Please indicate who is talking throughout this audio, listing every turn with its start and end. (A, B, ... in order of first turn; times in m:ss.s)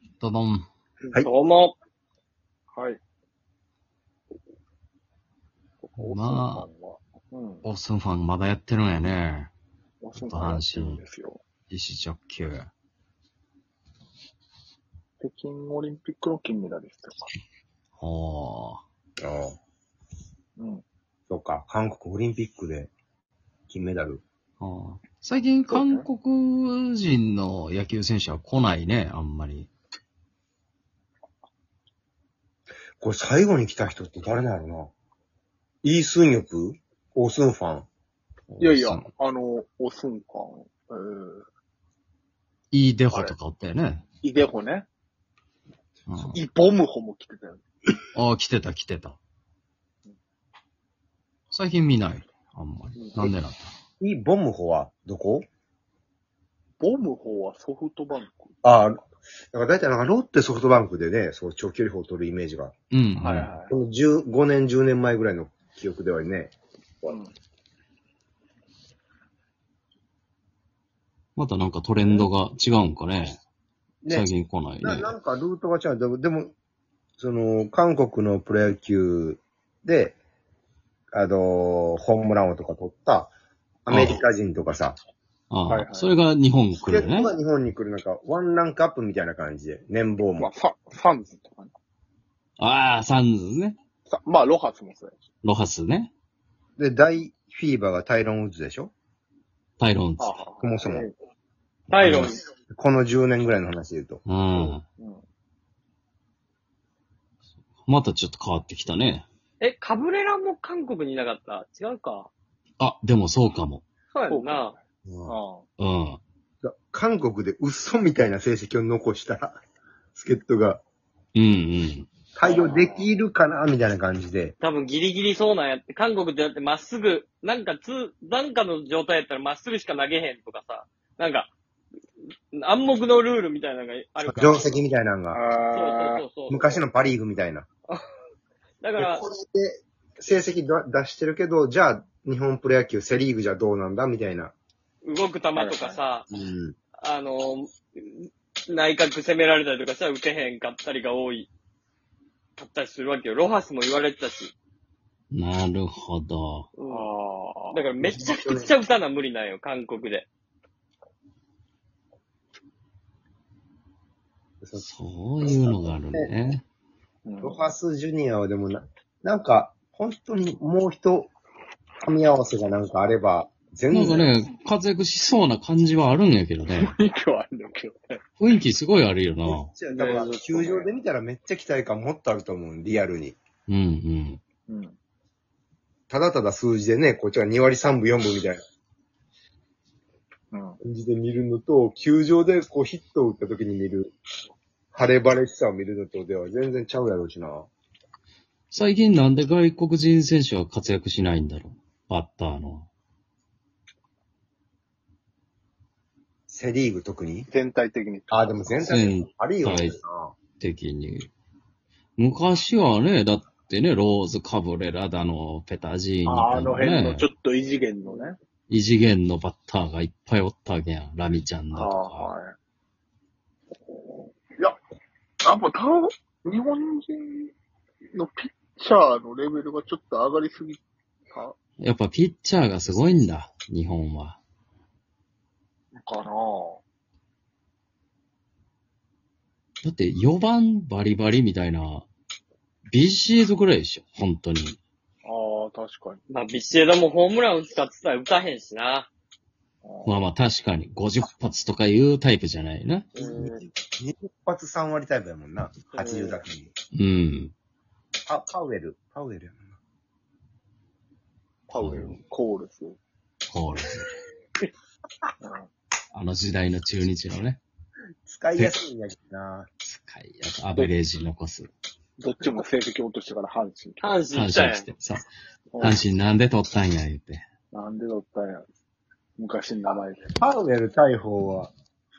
0:00.2-0:00.7 A
0:01.1-0:01.8 B
0:02.7-0:03.0 C
0:05.8-0:07.6 C
0:06.0-0:06.7 A
0:07.6-0:09.5 A
0:10.0-0:11.4 C
0:10.2-0:11.0 A
0:11.7-0:12.7 A
0:15.2-0:17.3 C
0:18.0-0:18.8 A
0:19.2-0:19.6 D
0:20.6-0:20.8 C
0:21.3-0:22.9 D
0:23.7-0:24.2 D
0:24.6-0:29.7 A
0:33.0-0:34.9 D
0:35.8-0:37.8 D
0:38.5-0:39.0 A
0:38.6-0:41.4 C
0:42.7-0:44.0 A
0:44.2-0:44.9 C
0:46.1-0:46.4 A
0:46.3-0:47.6 C
0:48.1-0:49.2 A
0:51.5-0:53.7 A
0:54.0-0:55.4 D
0:56.8-0:58.5 C
0:58.6-1:02.7 D
1:02.9-1:03.5 A
1:03.2-1:03.7 C
1:03.7-1:07.2 D
1:07.1-1:07.3 C
1:11.4-1:13.4 A
1:14.1-1:15.1 A
1:14.8-1:16.5 D
1:17.2-1:20.2 D
1:21.1-1:23.3 D
1:23.8-1:25.0 D
1:23.9-1:24.2 A
1:25.5-1:27.3 A
1:25.7-1:26.1 C
1:26.8-1:30.5 D
1:30.4-1:31.7 C
1:32.6-1:33.8 A
1:34.1-1:35.1 C
1:35.4-1:36.1 A
1:36.8-1:38.9 D
1:39.8-1:40.4 A
1:40.2-1:41.1 C
1:40.6-1:41.1 D
1:41.9-1:42.4 B
1:41.9-1:42.3 A
1:42.2-1:44.2 D
1:44.2-1:44.8 A
1:44.5-1:45.2 C
1:47.8-1:49.3 A
1:49.6-1:52.3 B
1:52.8-1:53.8 A
1:54.1-1:54.7 B
1:54.3-1:55.6 C
1:55.0-1:55.3 D
1:55.8-1:56.2 A
1:56.6-1:59.6 D
2:00.1-2:00.8 D
2:01.3-2:02.1 A
2:02.4-2:04.5 D
2:02.4-2:03.1 C
2:04.6-2:11.5 B
2:12.5-2:14.8 B
2:14.2-2:15.4 D
2:15.3-2:16.2 C
2:15.7-2:16.8 B
2:16.5-2:17.7 D
2:18.8-2:19.2 B
2:19.0-2:24.5 D
2:25.0-2:26.3 B
2:25.5-2:26.0 C
2:26.3-2:26.8 D
2:27.0-2:31.5 B
2:32.6-2:34.5 B
2:35.3-2:36.7 A
2:36.8-2:37.1 B
2:36.9-2:37.8 C
2:37.7-2:40.3 B
2:38.0-2:38.7 D
2:44.6-2:44.9 D
2:44.8-2:46.6 A
2:45.4-2:46.3 D
2:47.2-2:47.6 C
2:47.4-2:51.3 D
2:52.0-2:54.3 D
2:53.9-2:56.9 A
2:56.7-2:58.2 C
2:58.4-2:59.7 A
2:59.4-3:03.4 D
2:59.9-3:00.9 B
3:03.7-3:04.4 A
3:04.7-3:05.0 C
3:06.1-3:08.6 D
3:10.5-3:10.8 C
3:10.8-3:14.1 D
3:14.9-3:17.7 D
3:18.7-3:22.9 A
3:26.5-3:27.5 D
3:27.5-3:28.9 C
3:28.3-3:30.4 D
3:28.8-3:30.0 A
3:30.5-3:31.3 A
3:32.2-3:37.2 A
3:36.2-3:38.4 C
3:38.7-3:42.3 A
3:41.7-3:42.5 C
3:45.4-3:47.5 C
3:48.1-3:51.5 C
3:51.8-3:54.4 A
3:55.9-3:56.8 C
3:59.8-4:02.1 A
4:02.9-4:04.8 A
4:05.2-4:06.2 C
4:06.3-4:09.1 B
4:09.8-4:10.2 C
4:10.0-4:13.1 A
4:13.2-4:16.7 D
4:13.2-4:13.6 C
4:15.9-4:16.4 B
4:16.9-4:17.5 A
4:18.3-4:19.7 D
4:21.7-4:23.0 C
4:21.7-4:22.2 A
4:23.5-4:24.0 A
4:25.4-4:25.7 C
4:26.1-4:27.6 A
4:28.2-4:29.7 D
4:29.8-4:31.7 A
4:32.2-4:34.2 C
4:34.0-4:34.8 B
4:34.3-4:35.3 A
4:35.7-4:36.0 C
4:35.8-4:37.4 A
4:37.7-4:38.7 C
4:39.4-4:40.3 C
4:40.4-4:41.7 D